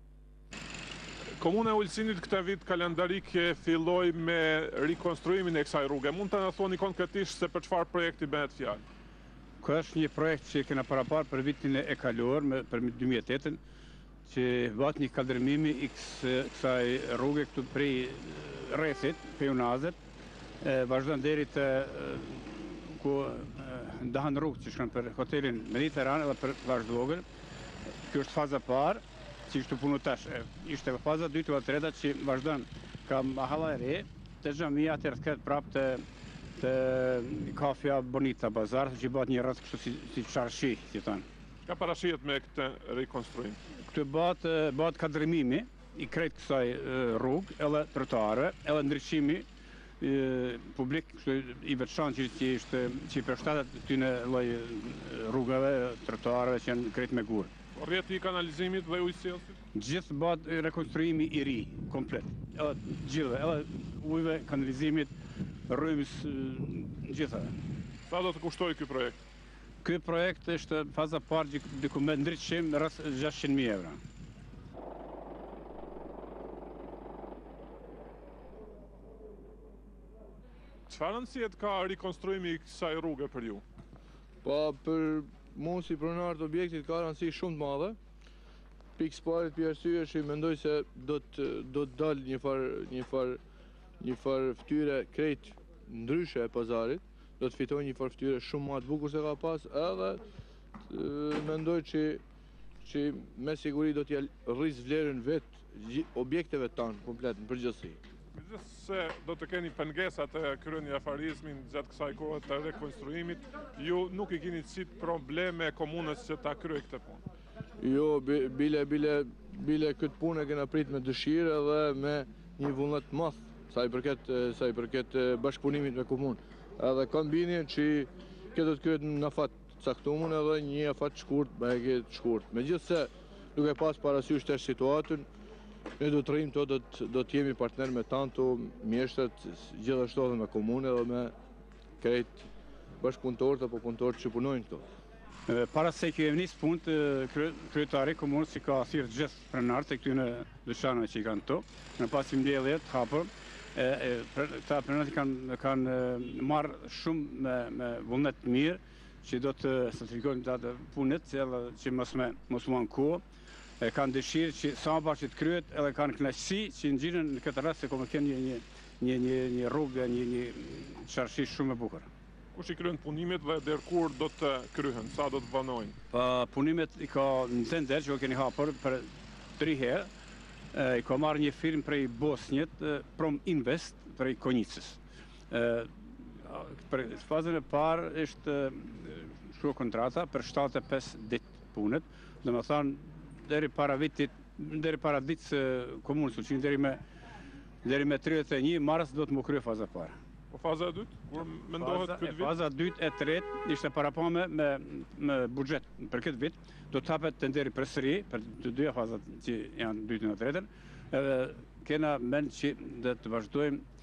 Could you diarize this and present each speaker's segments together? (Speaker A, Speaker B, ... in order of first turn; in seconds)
Speaker A: 1.4-8.8, 41.6-43.6, 57.7-59.5, 68.1-69.2, 80.9-83.6, 108.3-117.2, 172.5-175.9, 200.5-202.5
Speaker B: 9.6-13.6, 14.2-20.0, 20.6-27.2, 28.1-36.0, 36.5-41.2, 43.7-49.4, 50.0-57.5, 59.7-65.1, 65.7-67.5, 69.8-74.0, 145.5-163.2, 163.8-172.1, 176.1-180.1, 180.7-197.0, 197.8-200.1, 201.8-213.8
Speaker C: 84.4-88.0, 89.0-93.4, 94.0-100.2, 100.9-102.2, 102.8-108.0, 117.8-135.3, 136.0-141.3, 142.0-142.5, 143.0-144.8